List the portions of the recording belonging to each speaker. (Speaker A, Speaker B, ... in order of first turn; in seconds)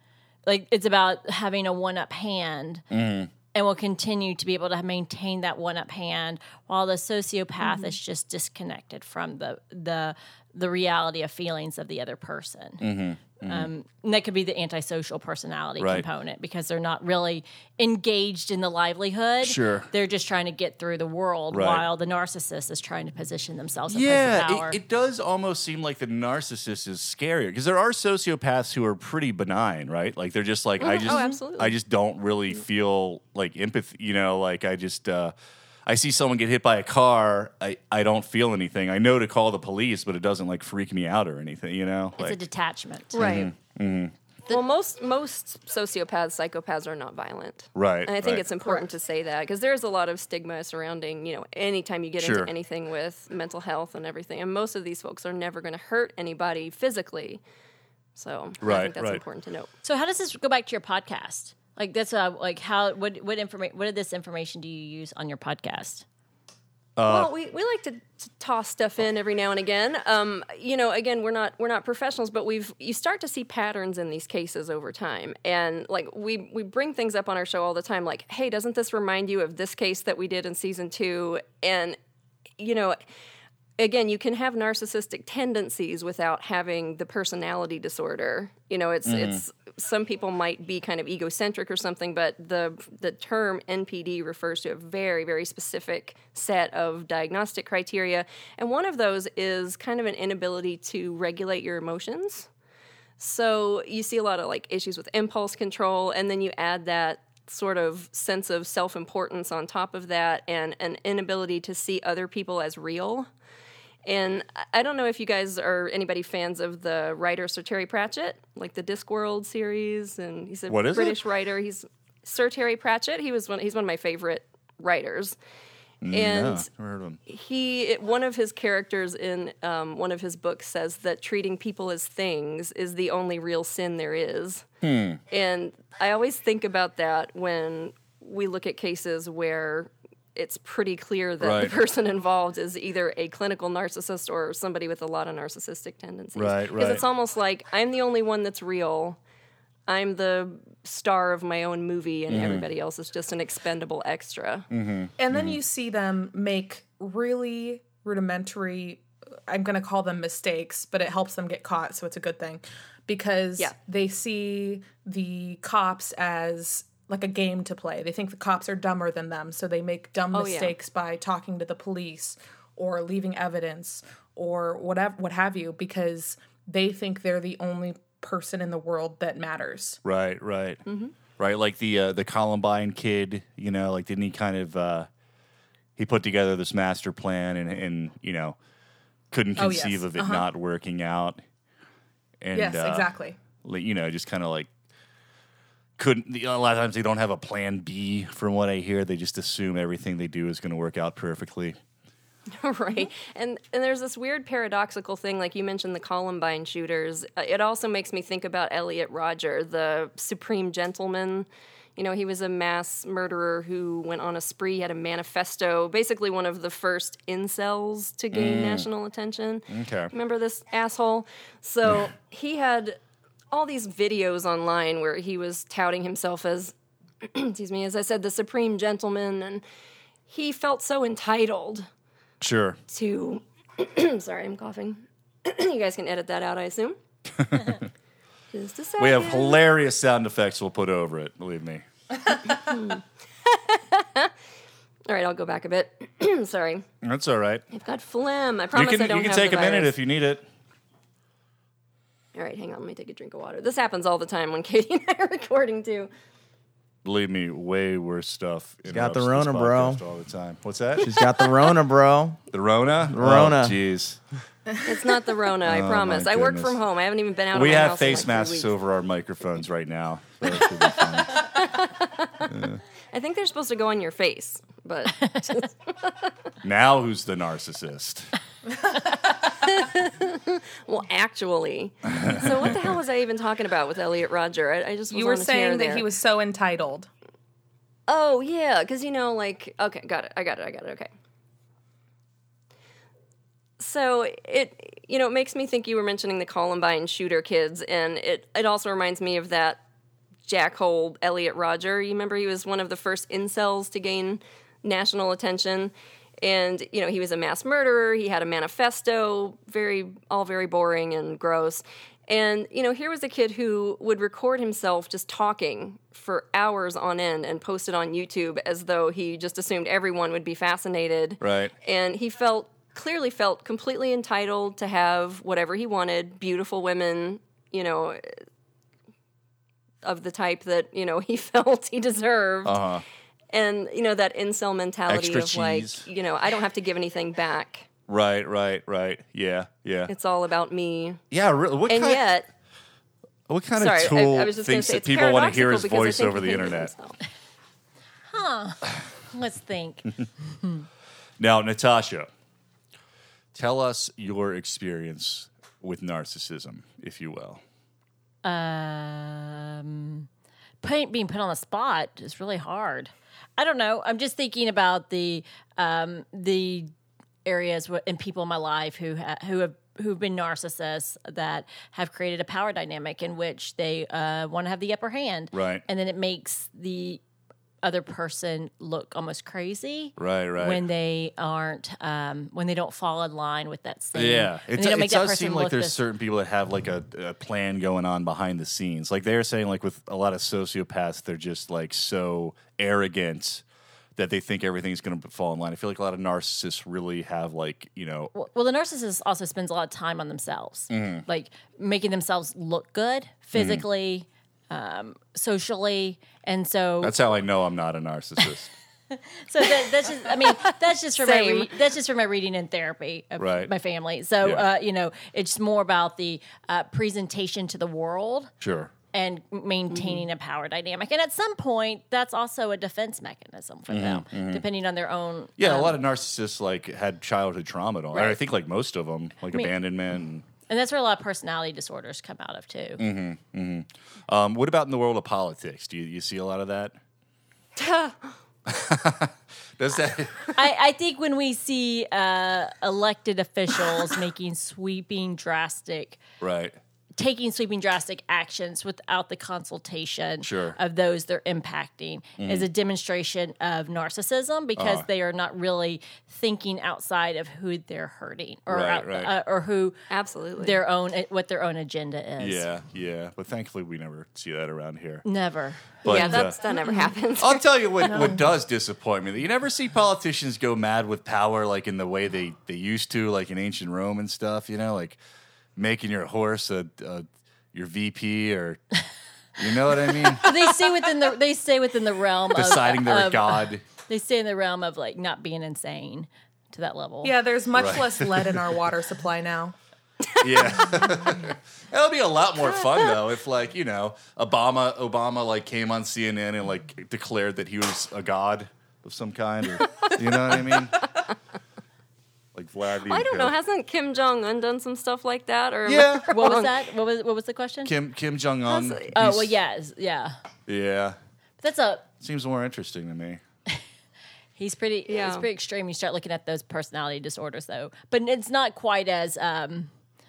Speaker A: 0.5-2.9, 3.5-12.8, 13.4-24.8, 42.2-43.2, 59.8-66.0, 275.2-275.6, 348.3-350.9, 358.4-360.3, 360.8-366.9, 367.4-377.2, 377.8-386.0, 398.3-407.2, 409.1-418.5, 419.1-426.0, 430.7-433.0, 440.6-446.2, 447.2-459.9, 460.6-462.7, 465.2-466.6, 480.3-487.4, 506.3-507.9, 509.1-510.4, 511.6-512.1, 514.6-519.9
Speaker B: 2.9-3.3, 12.8-13.7, 15.8-16.1, 19.4-19.9, 21.5-21.9, 23.9-35.3, 35.9-42.4, 43.1-44.1, 47.8-48.5, 52.2-52.5, 58.6-59.2, 67.0-67.3, 89.0-89.4, 120.7-121.2, 126.0-127.2, 134.8-135.2, 141.4-141.7, 146.4-147.0, 152.3-152.7, 154.7-155.6, 180.1-180.8, 181.4-185.1, 186.0-188.6, 189.3-191.4, 192.4-193.1, 193.6-194.7, 196.0-201.8, 218.3-218.9, 219.7-220.1, 232.4-232.8, 237.4-237.8, 239.0-241.8, 247.0-247.6, 248.7-250.5, 257.0-261.2, 262.5-264.2, 265.6-266.8, 267.5-271.5, 272.5-272.8, 276.6-278.3, 282.1-282.5, 321.4-321.7, 332.6-333.0, 335.1-336.1, 338.1-340.1, 341.3-342.3, 343.5-346.9, 351.4-352.3, 353.6-357.6, 375.5-375.8, 380.2-380.8, 384.1-393.6, 394.2-398.3, 400.9-401.2, 403.6-403.8, 407.0-408.7, 413.4-413.7, 418.6-418.9, 423.9-424.6, 425.6-430.5, 433.0-437.0, 438.7-440.5, 446.4-446.8, 450.4-450.8, 452.4-452.7, 454.8-455.1, 458.7-459.3, 462.4-465.2, 466.0-466.6, 467.4-475.2, 475.8-478.8, 479.6-480.5, 482.5-483.8, 487.8-488.8, 490.4-501.0, 502.6-503.5, 505.9-506.3, 507.9-509.5, 510.7-511.2, 512.2-513.4
Speaker C: 30.8-31.8, 43.1-43.5, 44.5-57.4, 58.2-59.7, 67.0-82.0, 82.6-83.0, 83.8-102.5, 103.2-113.3, 114.0-125.4, 126.1-126.7, 127.3-134.7, 135.3-149.2, 149.9-154.7, 170.3-170.8, 180.9-181.1, 202.6-223.0, 223.5-229.6, 230.3-231.9, 232.9-237.0, 238.5-239.6, 242.5-244.3, 245.1-246.8, 247.7-249.9, 252.3-256.1, 264.8-268.7, 271.3-272.5, 273.1-276.3, 279.3-286.1, 288.1-291.1, 293.8-299.8, 300.4-328.4, 330.0-332.8, 333.5-337.9, 340.1-341.2, 341.9-342.5, 343.8-347.2, 411.2-411.7, 437.8-438.2, 460.1-460.8, 466.1-468.4, 503.1-506.8, 508.7-509.1, 515.1-515.5
Speaker D: 155.2-180.0, 189.6-190.5, 192.5-193.4, 285.1-287.1, 487.2-489.8
Speaker E: 258.9-260.0, 261.0-262.4, 263.1-263.8